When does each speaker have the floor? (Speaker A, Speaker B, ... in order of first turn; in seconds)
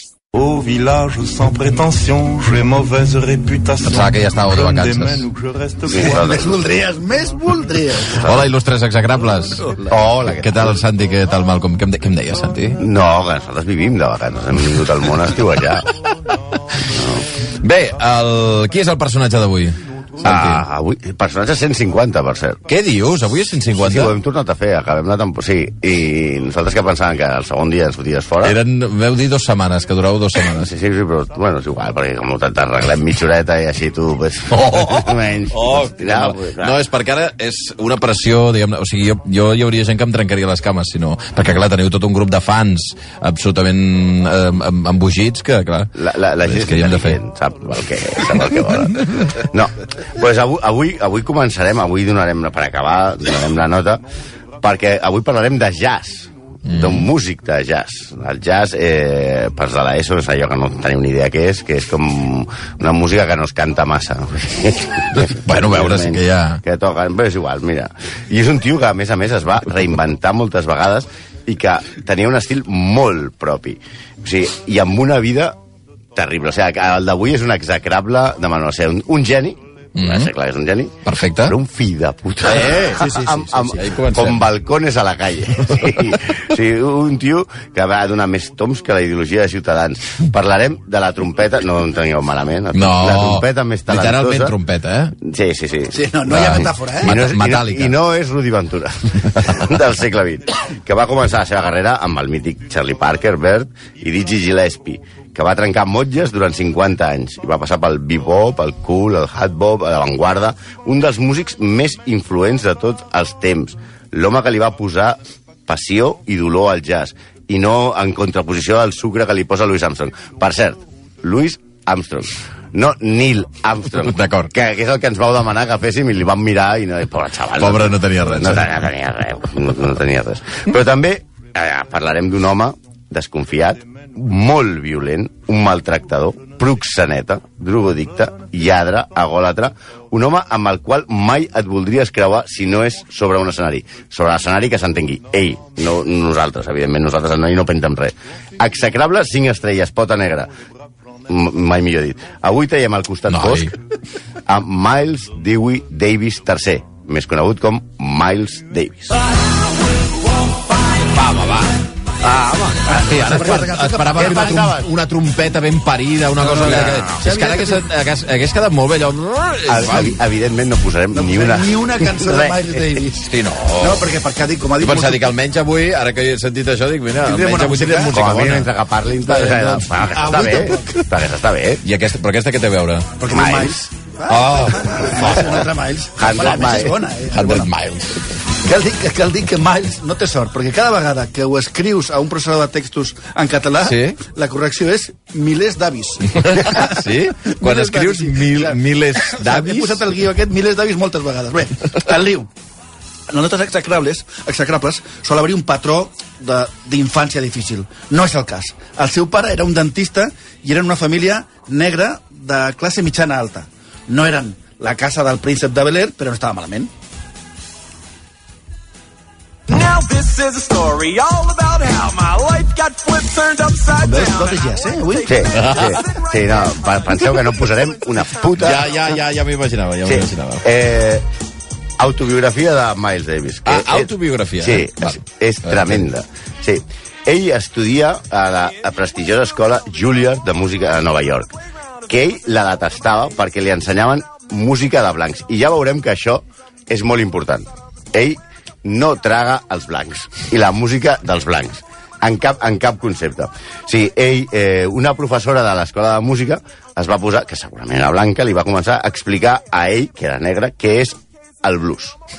Speaker A: 0.3-6.7
Speaker B: 3.8-5.3, 8.1-9.7, 10.3-12.8, 17.6-20.6, 22.7-24.1, 28.4-30.7, 34.5-45.9, 46.5-47.2, 56.7-57.1, 65.2-66.6, 80.0-80.3, 81.1-81.6, 82.5-83.1, 83.8-84.4, 85.7-86.2, 92.8-95.2, 96.3-97.9, 124.0-124.5, 127.6-128.7, 153.3-153.7, 160.9-170.2, 173.3-174.1, 174.8-178.7, 181.8-183.1, 184.3-185.6, 187.3-188.2, 193.8-194.2, 196.3-200.1, 225.5-226.0, 228.5-230.7, 233.7-236.0
Speaker C: 5.9-6.6, 8.1-8.5, 9.8-10.8, 12.8-15.9, 16.9-17.2, 20.2-22.6, 23.8-28.6, 30.5-36.8, 46.0-54.0, 54.6-75.6, 76.2-94.5, 95.2-96.1, 96.6-150.5, 151.3-153.7, 154.5-159.2, 164.1-164.9, 169.7-172.7, 178.1-181.8, 183.3-183.8, 186.2-187.1, 225.3-228.9, 230.0-231.2, 232.0-241.6, 242.1-262.2
Speaker D: 6.0-8.2, 82.6-84.0, 95.9-97.2, 162.9-164.7, 166.4-167.9, 171.1-175.3, 177.2-178.2, 179.2-181.1, 183.2-187.7, 188.6-202.5, 203.3-216.9, 224.0-225.4
Speaker E: 219.7-227.4